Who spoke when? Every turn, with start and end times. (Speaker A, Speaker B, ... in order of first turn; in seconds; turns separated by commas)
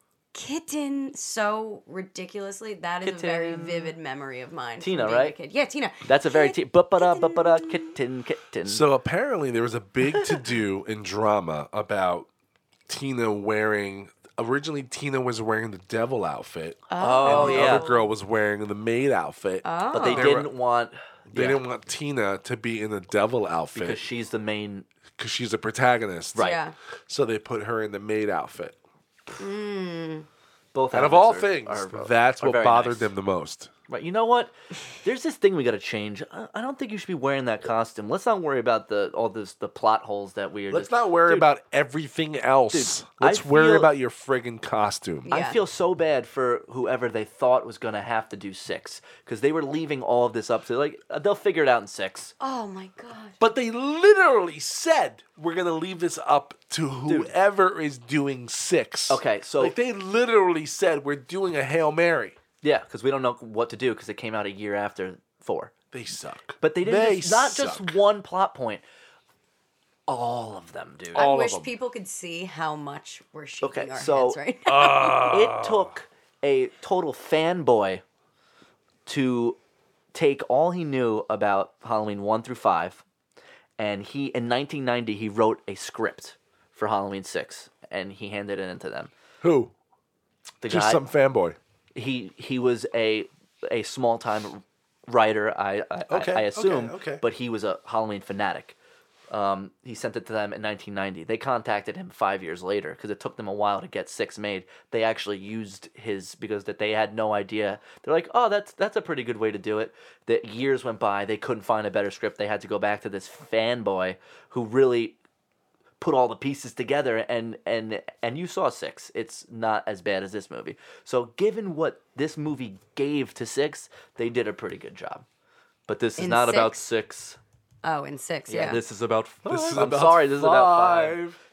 Speaker A: 0.3-7.9, Speaker B: 3.0-3.9, Speaker B: 4.8-5.3, Speaker B: 6.1-8.8, Speaker C: 8.6-12.3, Speaker B: 10.1-10.5, Speaker C: 12.9-20.5, Speaker A: 16.9-18.1, Speaker B: 17.0-17.9, Speaker A: 19.6-20.3, Speaker B: 19.9-21.6, Speaker C: 21.3-24.0, Speaker B: 23.7-24.9, Speaker C: 25.2-26.4, Speaker B: 26.3-26.6, Speaker A: 26.4-26.7, Speaker C: 27.1-28.8, Speaker A: 29.4-30.3, Speaker B: 30.7-33.1, Speaker C: 30.9-33.7, Speaker B: 33.9-34.5, Speaker B: 35.0-41.5, Speaker C: 40.7-45.3, Speaker B: 42.7-43.9, Speaker A: 45.2-45.6, Speaker B: 45.3-52.3, Speaker A: 52.4-53.4, Speaker C: 53.4-62.4, Speaker B: 57.0-57.3, Speaker B: 59.1-59.7, Speaker B: 62.6-65.7, Speaker C: 65.9-68.0, Speaker B: 66.6-68.8, Speaker B: 70.1-71.3, Speaker C: 71.1-71.7, Speaker A: 71.1-75.2, Speaker B: 73.6-74.4, Speaker C: 74.7-75.9, Speaker B: 75.1-78.0, Speaker B: 79.0-79.6, Speaker B: 80.1-83.0, Speaker B: 83.8-89.1, Speaker C: 89.4-89.7, Speaker B: 90.6-91.0, Speaker C: 90.7-91.6, Speaker B: 91.9-98.8, Speaker C: 96.1-97.2, Speaker B: 99.3-115.2, Speaker B: 116.0-125.2, Speaker B: 125.9-127.4, Speaker A: 126.2-126.8, Speaker A: 127.8-128.8, Speaker B: 128.5-131.2, Speaker C: 129.4-131.4